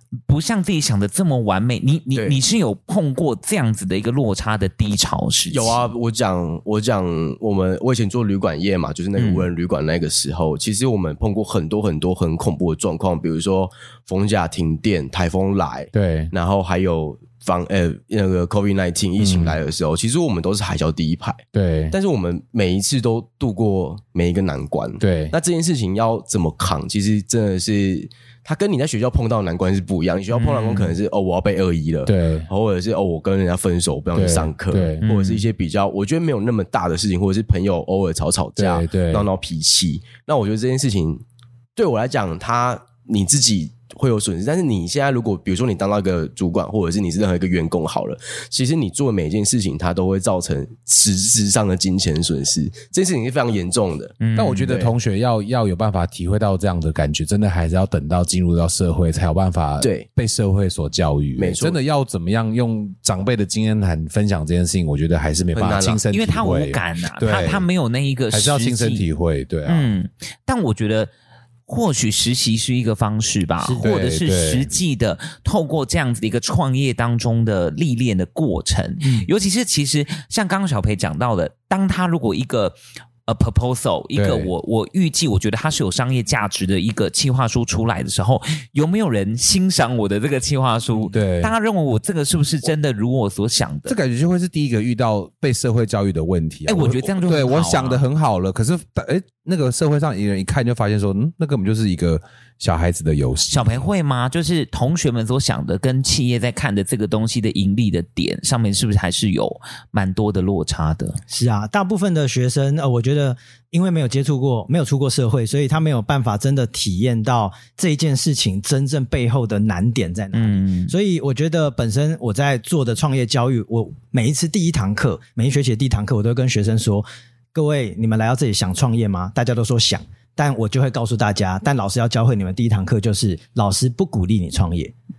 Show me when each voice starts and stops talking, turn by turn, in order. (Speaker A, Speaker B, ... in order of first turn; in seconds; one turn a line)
Speaker A: 0.3-5.9
Speaker B: 2.1-2.4
Speaker B: 5.5-41.2
Speaker A: 9.2-9.5
Speaker C: 15.9-16.3
Speaker C: 19.2-19.6
Speaker C: 21.5-21.9
Speaker C: 25.0-25.4
Speaker A: 30.3-30.9
Speaker C: 32.1-32.5
Speaker C: 34.1-35.0
Speaker A: 35.0-35.4
Speaker C: 38.6-39.3
Speaker B: 41.8-54.2
Speaker A: 54.2-54.9
Speaker C: 54.4-67.7
Speaker B: 59.8-60.1
Speaker B: 61.4-61.8
Speaker B: 65.5-66.0
Speaker A: 66.1-69.1
Speaker C: 68.3-69.9
Speaker A: 69.7-71.1
Speaker A: 71.7-94.0
Speaker D: 73.6-73.9
Speaker C: 73.8-74.7
Speaker D: 79.0-79.3
Speaker C: 84.2-84.5
Speaker C: 91.1-91.5
Speaker C: 93.9-103.9
Speaker A: 96.7-98.0
Speaker A: 103.5-111.2
Speaker D: 111.3-134.9
Speaker A: 120.3-120.9